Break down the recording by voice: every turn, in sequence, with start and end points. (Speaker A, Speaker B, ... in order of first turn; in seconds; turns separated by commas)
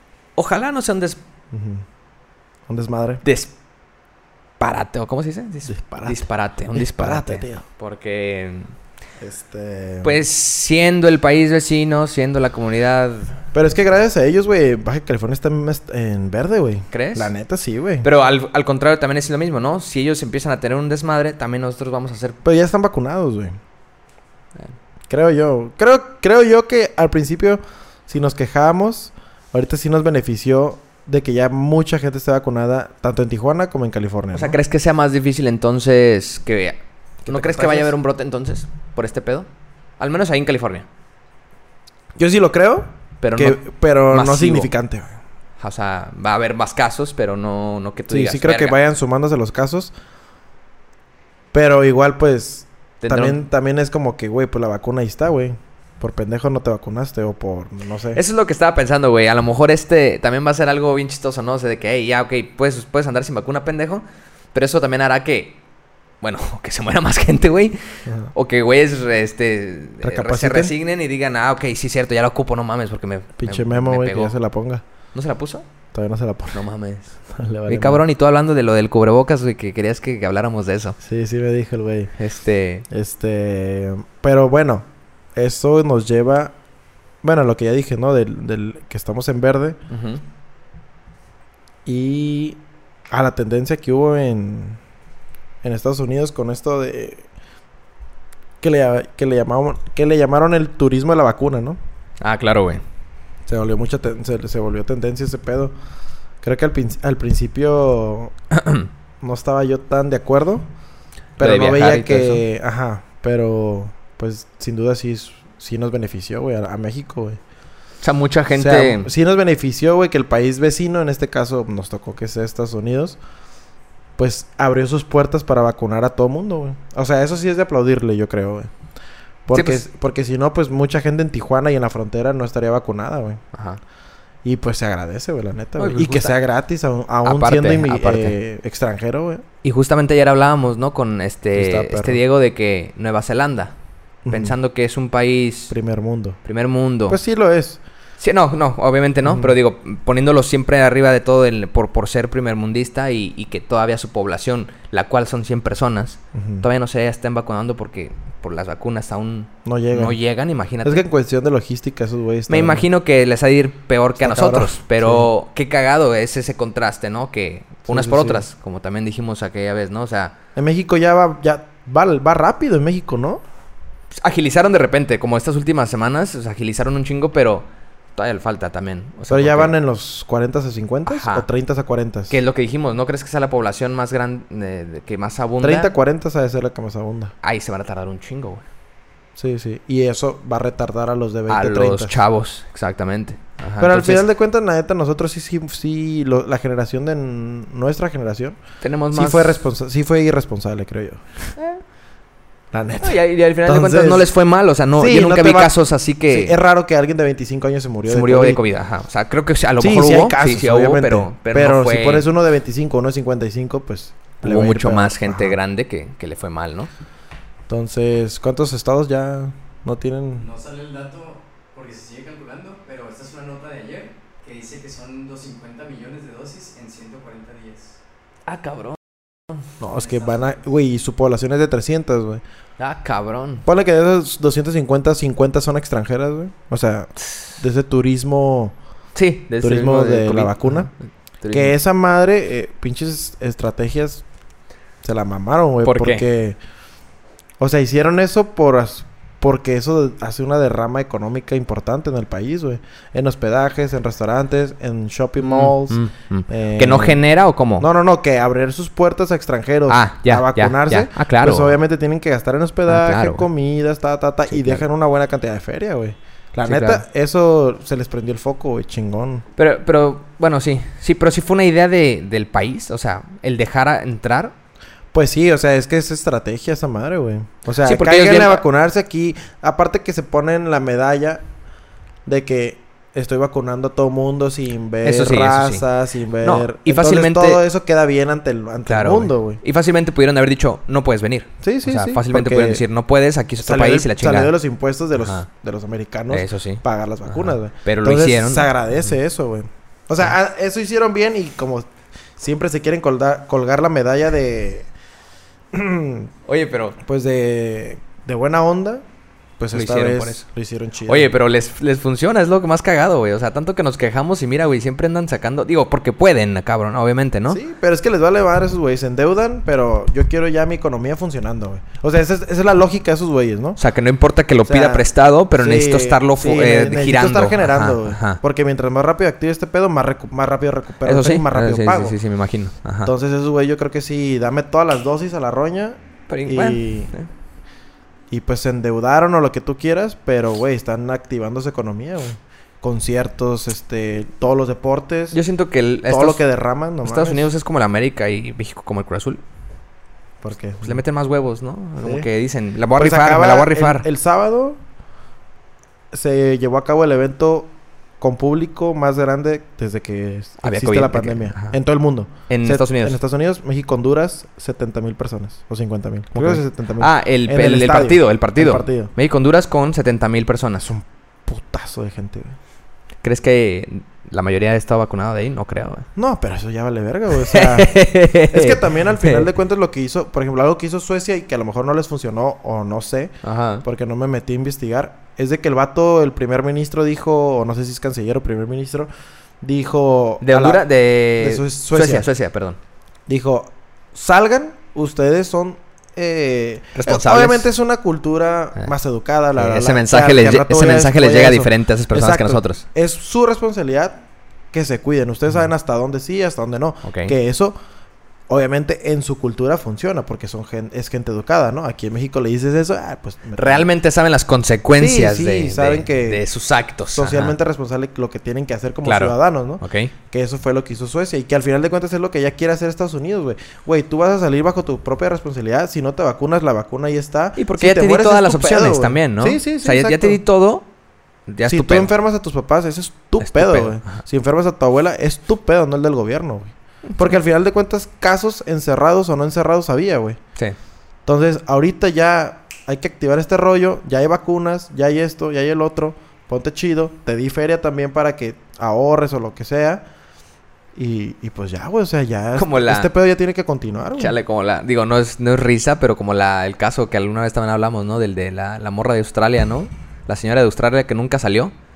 Speaker A: 0.3-1.2, Speaker B: 1.5-1.8, Speaker B: 2.7-3.2, Speaker A: 3.2-3.5, Speaker A: 4.6-8.7, Speaker B: 5.7-7.6, Speaker B: 9.2-10.2, Speaker A: 10.0-13.4, Speaker B: 13.5-18.1, Speaker A: 16.9-17.3, Speaker A: 18.0-22.4, Speaker B: 22.4-23.6, Speaker B: 25.1-34.6, Speaker A: 34.3-39.5, Speaker B: 37.2-37.9, Speaker A: 40.0-40.9, Speaker B: 42.2-45.1, Speaker A: 43.2-44.7, Speaker A: 45.6-48.8, Speaker B: 48.1-49.9, Speaker B: 51.5-58.2, Speaker A: 53.0-53.4, Speaker A: 58.1-65.6, Speaker A: 66.2-67.8, Speaker B: 68.0-68.3, Speaker A: 68.3-74.3, Speaker B: 70.0-70.7, Speaker B: 73.4-74.8, Speaker A: 75.1-75.7, Speaker B: 75.9-76.6, Speaker A: 76.5-77.2, Speaker B: 77.3-78.0, Speaker A: 77.7-81.0, Speaker B: 81.0-82.1, Speaker A: 82.2-82.8, Speaker B: 82.9-86.5, Speaker B: 87.2-89.8, Speaker A: 89.9-90.2, Speaker B: 91.8-94.8, Speaker B: 95.6-97.3, Speaker B: 98.6-101.8, Speaker A: 102.2-102.8, Speaker B: 103.5-105.7, Speaker B: 106.4-108.3, Speaker A: 108.5-108.9, Speaker B: 109.2-110.7, Speaker B: 111.4-117.4, Speaker A: 111.4-112.4, Speaker A: 118.0-119.1, Speaker B: 118.5-123.2, Speaker B: 124.2-128.7, Speaker B: 129.4-133.4, Speaker A: 129.5-129.8, Speaker A: 133.5-133.8, Speaker B: 134.4-139.4, Speaker A: 135.8-136.3, Speaker A: 137.2-138.4, Speaker A: 139.6-143.7, Speaker B: 141.5-142.2, Speaker B: 144.2-144.6, Speaker A: 144.3-145.7, Speaker B: 145.7-146.4, Speaker A: 146.4-147.2, Speaker B: 147.1-147.8, Speaker A: 148.2-161.0, Speaker B: 149.2-149.5, Speaker B: 156.3-156.6, Speaker B: 159.6-160.2, Speaker B: 160.8-162.8, Speaker A: 162.5-170.3, Speaker B: 164.2-165.3, Speaker B: 167.9-168.4, Speaker B: 170.6-173.4, Speaker A: 174.2-179.7, Speaker B: 179.3-182.3, Speaker A: 181.1-181.5, Speaker A: 182.3-185.9, Speaker B: 185.6-187.3, Speaker A: 187.4-188.6, Speaker B: 189.4-192.2, Speaker A: 191.5-194.2, Speaker B: 193.8-198.6, Speaker A: 198.8-199.6, Speaker B: 199.1-201.2, Speaker B: 202.7-204.3, Speaker A: 203.0-206.6, Speaker B: 204.9-205.8, Speaker B: 206.3-208.6, Speaker A: 208.1-212.3, Speaker B: 209.8-215.6, Speaker A: 214.4-216.9, Speaker B: 217.7-220.5, Speaker C: 220.4-228.0, Speaker A: 228.5-229.0, Speaker B: 229.8-232.4, Speaker C: 229.9-230.6, Speaker A: 232.8-233.7, Speaker B: 233.6-238.7, Speaker A: 239.1-241.7, Speaker B: 239.6-240.9, Speaker B: 241.5-244.2, Speaker B: 245.0-246.6, Speaker A: 245.8-246.2, Speaker B: 247.6-257.2, Speaker A: 255.4-257.9, Speaker B: 257.8-269.4, Speaker A: 259.9-261.7, Speaker A: 262.9-263.5, Speaker A: 264.5-264.8, Speaker A: 266.6-267.0, Speaker A: 269.6-274.5, Speaker B: 275.1-281.4, Speaker A: 277.8-278.6, Speaker B: 282.2-289.6, Speaker A: 285.0-285.9, Speaker A: 286.4-287.6, Speaker A: 288.9-294.5, Speaker B: 291.6-292.8, Speaker B: 293.6-304.9, Speaker A: 295.1-295.5, Speaker A: 296.3-298.7, Speaker B: 305.7-306.3, Speaker A: 306.4-307.0, Speaker B: 307.0-309.0, Speaker B: 309.6-311.3, Speaker A: 309.7-310.4, Speaker A: 311.1-317.6, Speaker B: 317.5-323.8, Speaker A: 323.8-328.4, Speaker B: 324.6-332.2, Speaker A: 331.0-333.1, Speaker B: 333.0-337.1, Speaker A: 336.3-337.3, Speaker B: 338.3-345.4, Speaker A: 345.3-346.4, Speaker B: 346.1-347.5, Speaker A: 347.0-349.4, Speaker B: 350.4-351.0, Speaker A: 350.8-354.1, Speaker B: 352.0-352.3, Speaker B: 352.9-354.8, Speaker B: 356.1-369.1, Speaker A: 360.6-361.8, Speaker A: 362.5-363.2, Speaker A: 366.3-370.9, Speaker B: 370.8-372.6, Speaker A: 373.2-376.1, Speaker B: 376.1-377.9, Speaker A: 377.4-379.5, Speaker B: 378.5-389.1, Speaker A: 383.4-383.8, Speaker B: 389.6-390.8, Speaker A: 390.4-392.8, Speaker B: 391.4-392.3, Speaker B: 393.3-407.8, Speaker A: 396.9-397.7, Speaker A: 399.5-402.8, Speaker A: 407.0-407.3, Speaker B: 408.5-413.9, Speaker A: 413.6-417.6, Speaker B: 414.9-416.4, Speaker B: 417.1-430.4, Speaker A: 419.0-420.1, Speaker A: 427.6-430.9, Speaker A: 431.5-432.1, Speaker B: 431.7-440.4, Speaker A: 433.4-434.2, Speaker B: 441.2-450.0, Speaker B: 450.9-454.3, Speaker A: 452.6-453.1, Speaker A: 454.2-461.7